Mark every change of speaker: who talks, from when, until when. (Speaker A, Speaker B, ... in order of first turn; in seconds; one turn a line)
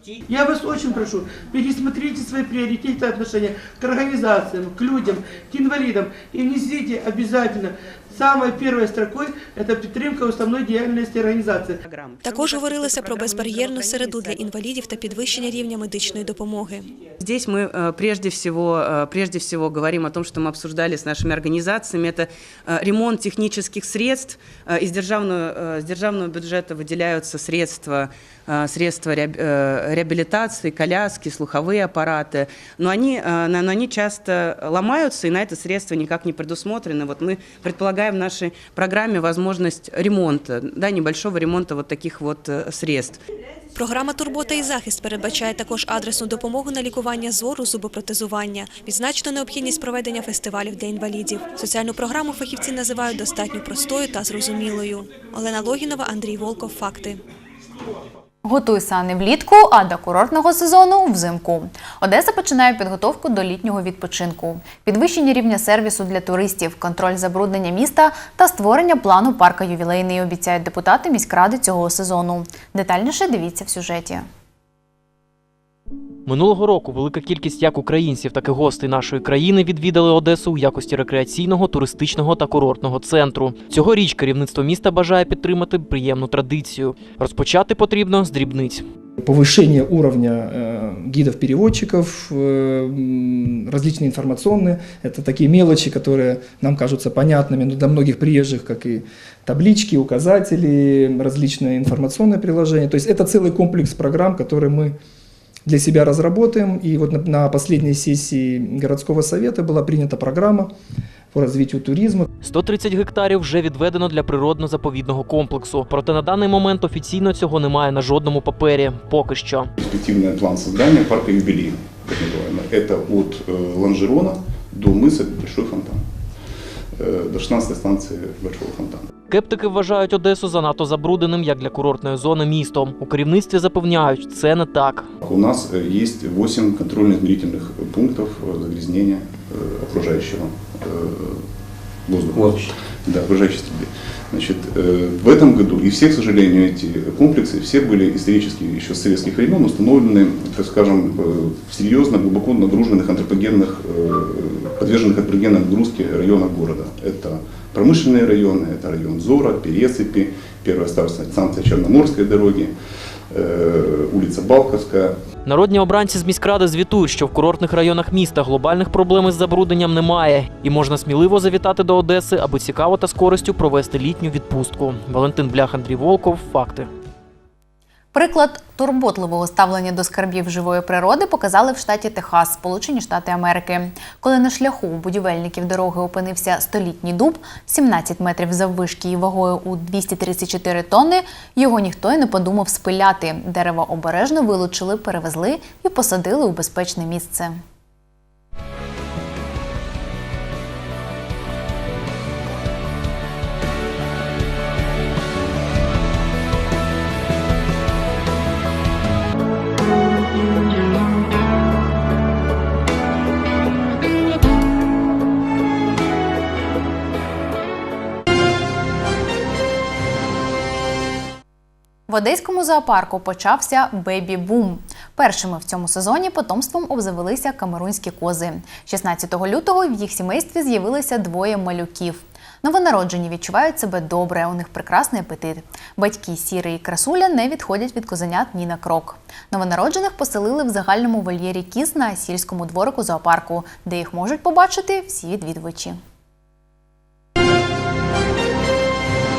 Speaker A: 0.3-11.8
Speaker B: 11.8-14.4
Speaker C: 12.2-16.9
Speaker B: 17.2-43.2
Speaker C: 43.8-57.2
Speaker D: 58.5-74.2
Speaker E: 76.3-88.8
Speaker F: 89.2-105.0
Speaker F: 105.7-110.7
Speaker F: 111.3-112.3
Speaker E: 112.4-119.7
Speaker G: 119.8-126.0
Speaker G: 127.0-129.1
Speaker E: 129.3-135.1
Speaker G: 135.2-141.4
Speaker G: 142.1-162.7
Speaker G: 163.3-165.2
Speaker E: 165.4-176.9
Speaker D: 178.1-197.6
Speaker D: 222.1-246.0